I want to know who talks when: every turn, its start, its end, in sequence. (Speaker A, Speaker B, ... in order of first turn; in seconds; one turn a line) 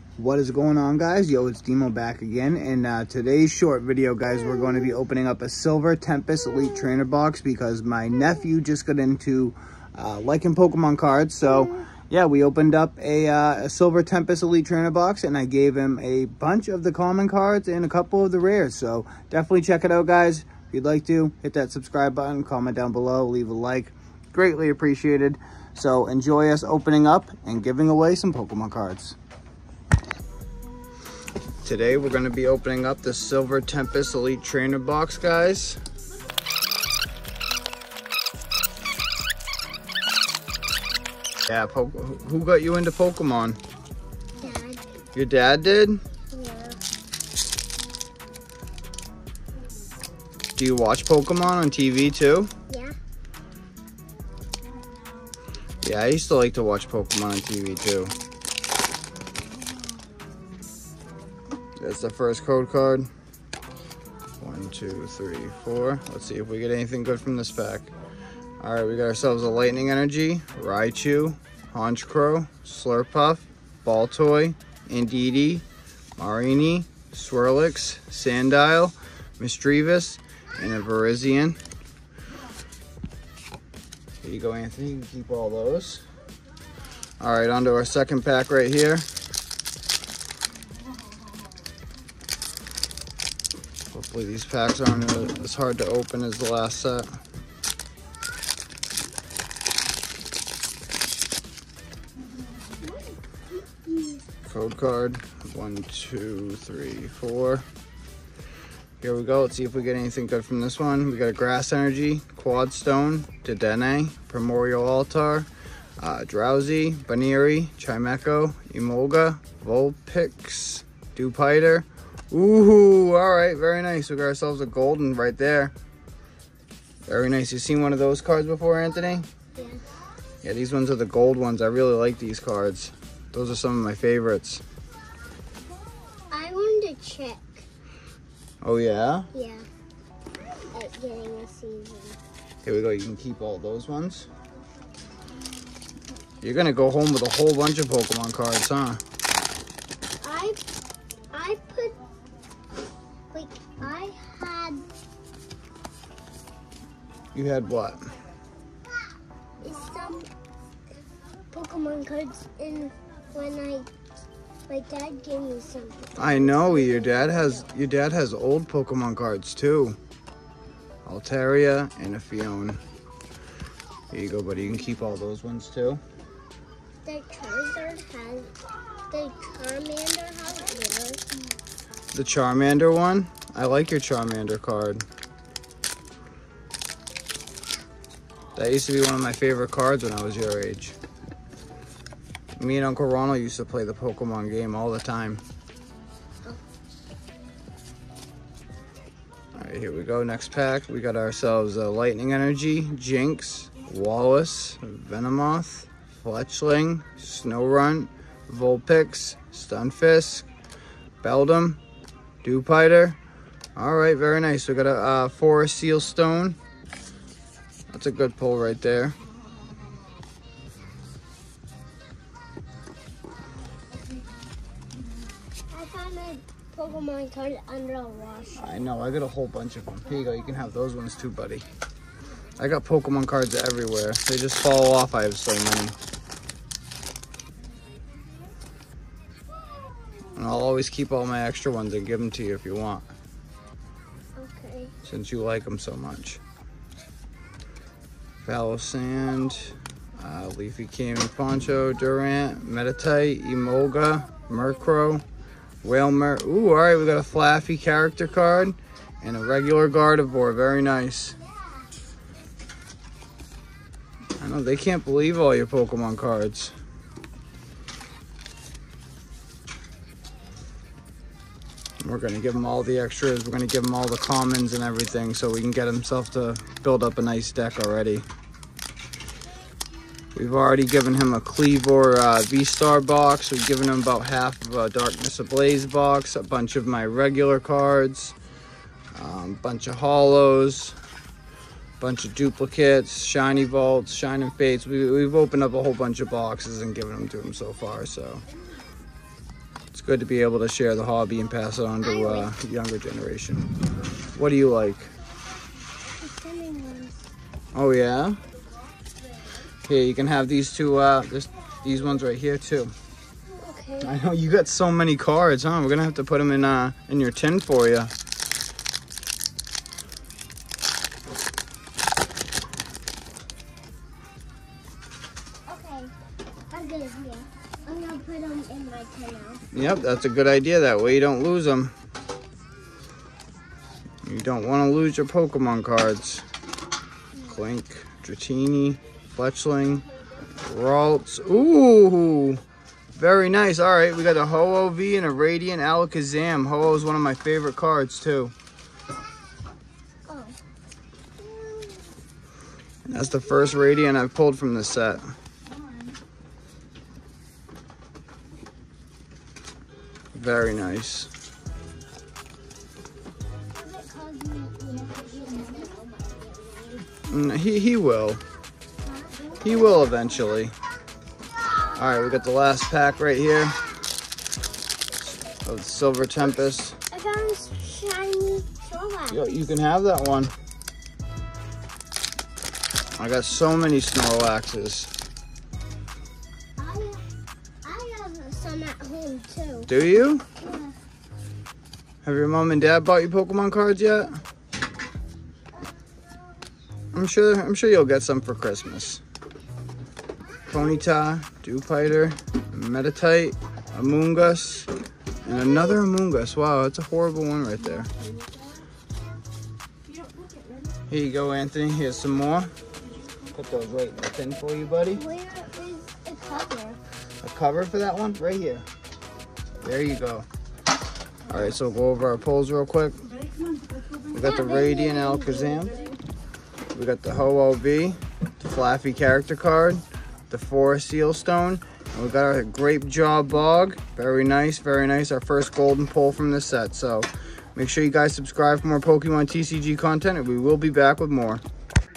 Speaker A: 0.2-29.2
Speaker A: 31.6-35.8
Speaker A: 41.5-43.6
Speaker B: 44.4-44.8
Speaker A: 45.1-46.0
Speaker B: 46.3-46.8
Speaker A: 50.6-52.5
Speaker B: 52.7-52.9
Speaker A: 55.8-58.1
Speaker A: 61.8-63.1
Speaker A: 64.4-67.9
Speaker A: 68.6-75.6
Speaker A: 76.2-81.6
Speaker A: 84.2-86.0
Speaker A: 87.2-89.1
Speaker A: 93.9-97.1
Speaker B: 102.8-104.2
Speaker A: 104.4-107.6
Speaker A: 109.0-115.5
Speaker A: 116.0-125.7
Speaker A: 127.1-129.2
Speaker A: 130.4-134.6
Speaker B: 136.3-137.7
Speaker A: 138.6-139.3
Speaker B: 139.3-139.7
Speaker B: 140.7-142.2
Speaker A: 142.6-144.3
Speaker A: 146.4-149.0
Speaker B: 150.2-150.6
Speaker B: 151.3-152.0
Speaker B: 153.3-154.8
Speaker A: 157.3-158.0
Speaker B: 159.6-160.3
Speaker B: 161.5-163.9
Speaker B: 164.7-167.7
Speaker A: 166.2-170.0
Speaker A: 171.1-172.8
Speaker A: 174.1-176.0
Speaker B: 177.0-178.5
Speaker B: 179.1-181.2
Speaker A: 182.1-185.1
Speaker A: 188.6-190.9
Speaker A: 192.6-195.4
Speaker A: 199.5-210.4
Speaker A: 211.2-211.8
Speaker A: 212.4-213.2
Speaker A: 213.8-216.6
Speaker A: 217.9-219.2
Speaker B: 225.7-228.6
Speaker A: 228.6-231.6
Speaker A: 232.6-235.9
Speaker A: 240.3-243.1
Speaker B: 244.3-244.9
Speaker A: 245.0-246.4
Speaker A: 248.4-255.2
Speaker A: 255.8-261.4
Speaker A: 264.4-266.7
Speaker A: 272.0-278.2
Speaker A: 280.3-288.3
Speaker A: 289.1-291.0
Speaker A: 292.0-298.4
Speaker A: 299.9-303.7
Speaker B: 302.0-302.5
Speaker A: 304.3-305.1
Speaker B: 306.1-307.3
Speaker A: 307.7-308.4
Speaker A: 309.9-312.9
Speaker B: 313.5-314.1
Speaker A: 314.0-318.1
Speaker B: 325.7-326.1
Speaker B: 326.7-329.6
Speaker A: 329.7-331.9
Speaker A: 334.2-336.4
Speaker A: 337.5-340.0
Speaker A: 340.6-342.6
Speaker A: 343.1-348.5
Speaker B: 350.3-350.6
Speaker B: 351.4-352.1
Speaker A: 353.0-355.3
Speaker A: 360.3-361.3
Speaker B: 363.7-367.1
Speaker A: 367.3-368.4
Speaker B: 369.0-370.2
Speaker A: 369.6-370.7
Speaker A: 371.9-373.8
Speaker A: 375.6-377.0
Speaker B: 377.1-379.7
Speaker A: 379.3-380.5
Speaker A: 383.2-385.1
Speaker B: 386.8-387.2
Speaker B: 387.8-389.9
Speaker A: 389.9-390.4
Speaker B: 390.6-390.9
Speaker A: 392.2-394.4
Speaker A: 397.1-399.2
Speaker A: 400.7-404.9
Speaker A: 405.4-408.1
Speaker A: 411.1-412.7
Speaker A: 413.5-415.2
Speaker B: 415.1-417.0
Speaker A: 417.4-418.8
Speaker A: 419.8-420.5
Speaker A: 421.5-423.2
Speaker A: 424.3-425.9
Speaker B: 424.4-426.2
Speaker A: 426.9-441.6